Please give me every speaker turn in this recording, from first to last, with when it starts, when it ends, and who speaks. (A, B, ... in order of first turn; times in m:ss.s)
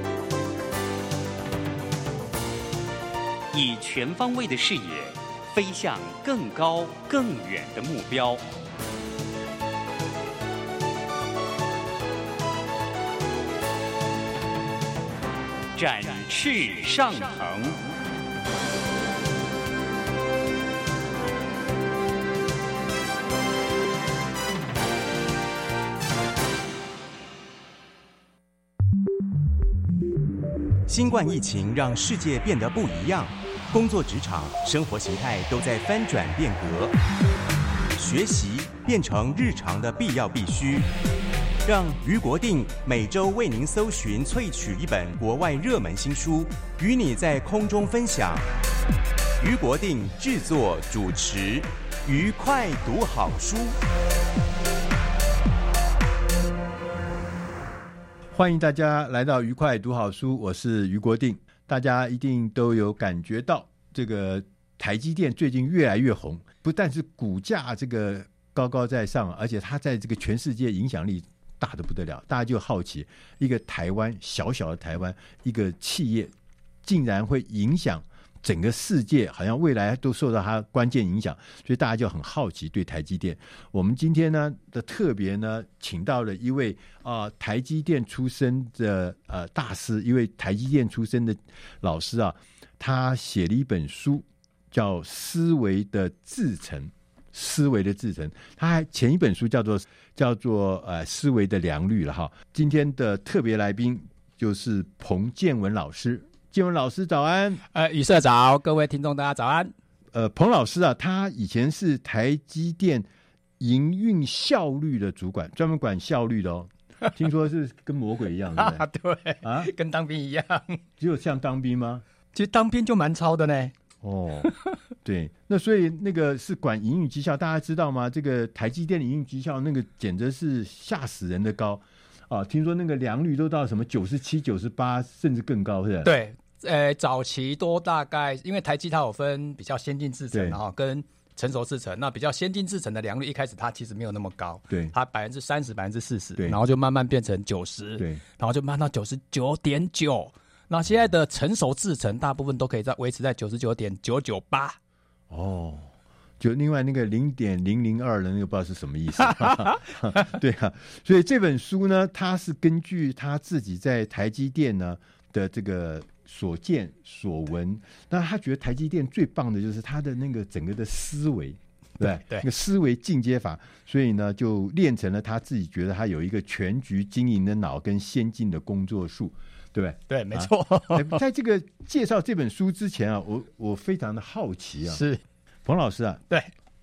0:03.5-0:08.4 A
0:15.8-0:17.8 A
0:30.9-0:37.0 B
0:38.0-0:40.9 B
0:41.6-0:48.5 B
0:49.4-0:53.8 B
0:58.3-1:16.3 C
1:16.8-1:47.6 C
1:47.7-1:49.7 D
1:50.1-1:53.1 C
1:53.6-1:58.8 C
1:58.6-2:00.8 D
1:59.4-1:59.7 C
2:01.0-2:02.0 C
2:02.3-2:03.7 D
2:04.0-2:04.5 C
2:05.0-2:16.1 C
2:16.0-2:34.8 D
2:20.3-2:20.6 C
2:35.3-2:35.9 C
2:36.4-3:05.0 C
2:39.3-2:40.3 D
2:52.0-2:52.5 D
3:00.1-3:01.2 D
3:04.9-3:05.2 D
3:05.6-3:06.2 C